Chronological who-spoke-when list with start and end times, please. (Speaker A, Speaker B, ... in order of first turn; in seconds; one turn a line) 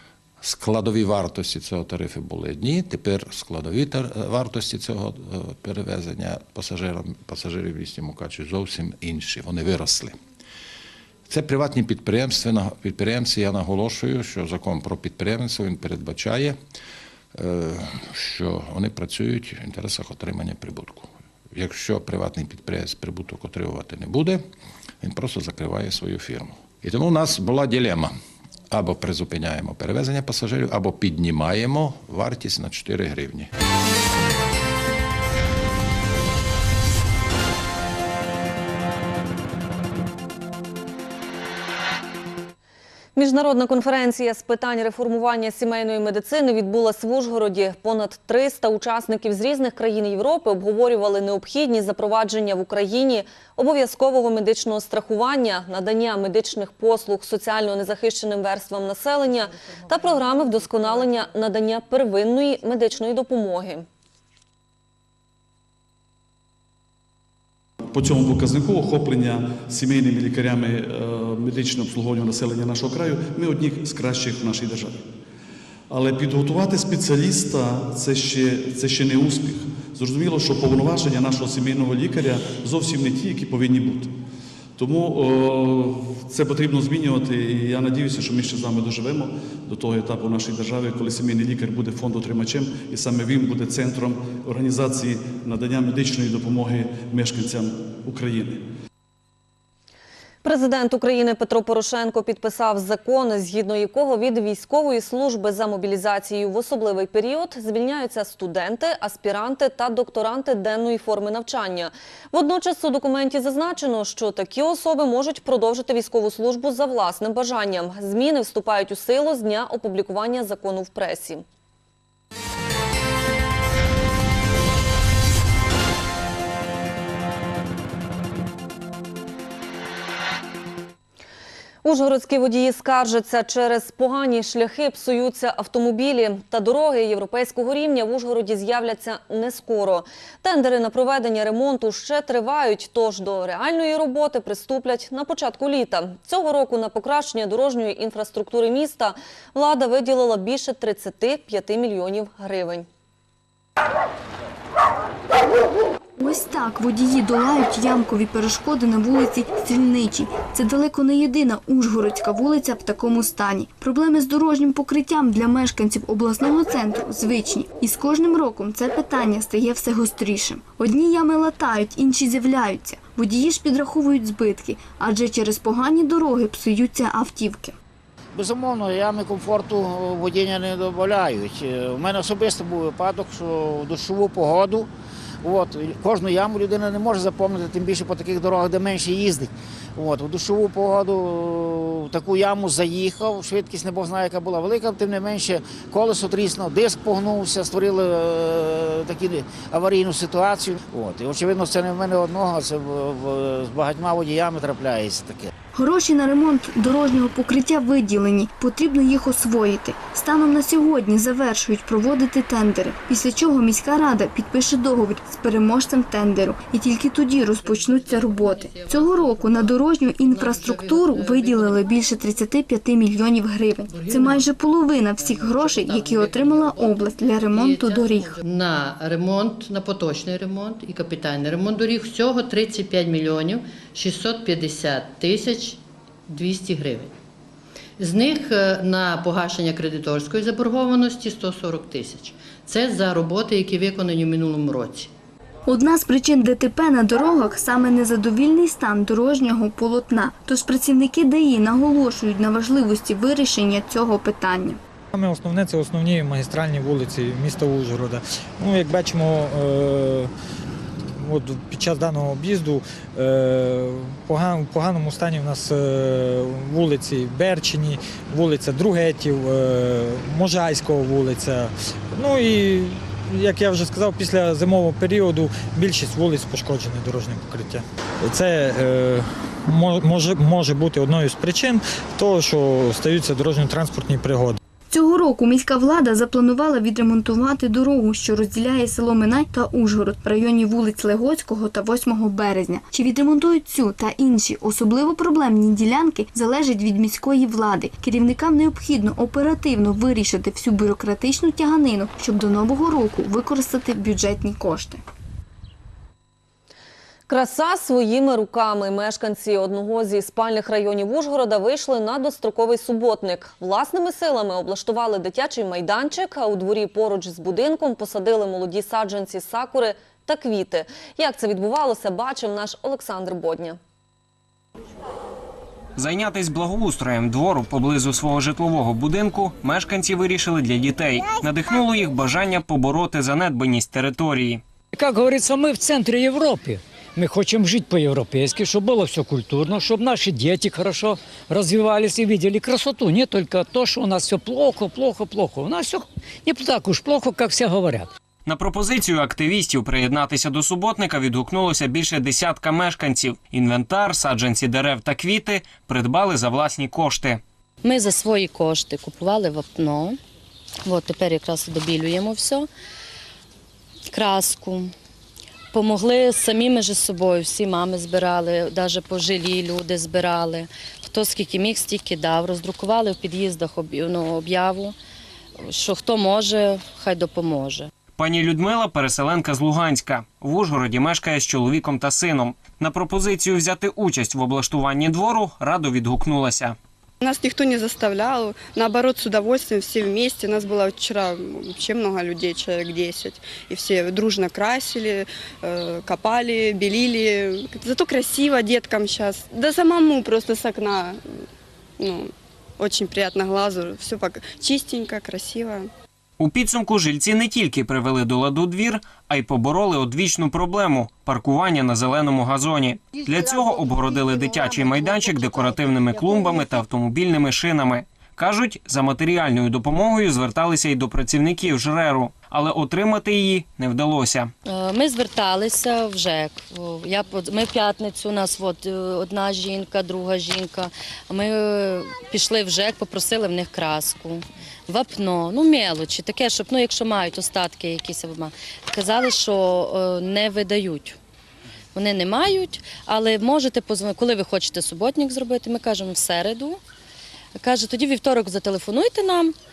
Speaker A: 0.4-10.2
Speaker A: 11.3-16.6
Speaker A: 17.3-24.4
Speaker A: 25.0-28.1
Speaker A: 28.7-33.5
Speaker B: 43.1-63.9
Speaker C: 67.9-75.0
Speaker C: 75.9-84.1
Speaker C: 84.8-98.6
Speaker B: 100.4-121.4
Speaker B: 131.8-152.9
Speaker D: 156.2-177.7
Speaker E: 178.3-184.9
Speaker E: 185.4-205.5
Speaker D: 205.7-228.4
Speaker F: 217.3-222.1
Speaker F: 223.9-224.5
Speaker F: 225.2-237.1
Speaker F: 238.0-245.1
Speaker D: 245.7-254.8
Speaker G: 255.1-260.3
Speaker G: 261.2-284.6
Speaker D: 284.9-305.0
Speaker B: 307.3-323.8
Speaker H: 326.0-334.6
Speaker I: 334.9-348.1
Speaker H: 348.4-357.4
Speaker J: 357.8-360.2
Speaker J: 360.8-362.7
Speaker J: 364.1-364.9
Speaker J: 365.7-374.9
Speaker J: 375.6-377.9
Speaker H: 378.2-386.8
Speaker K: 387.2-401.2
Speaker K: 402.0-402.3
Speaker K: 402.8-405.9
Speaker H: 406.4-424.5
Speaker J: 424.6-441.2
Speaker J: 441.9-446.8
Speaker J: 447.6-449.5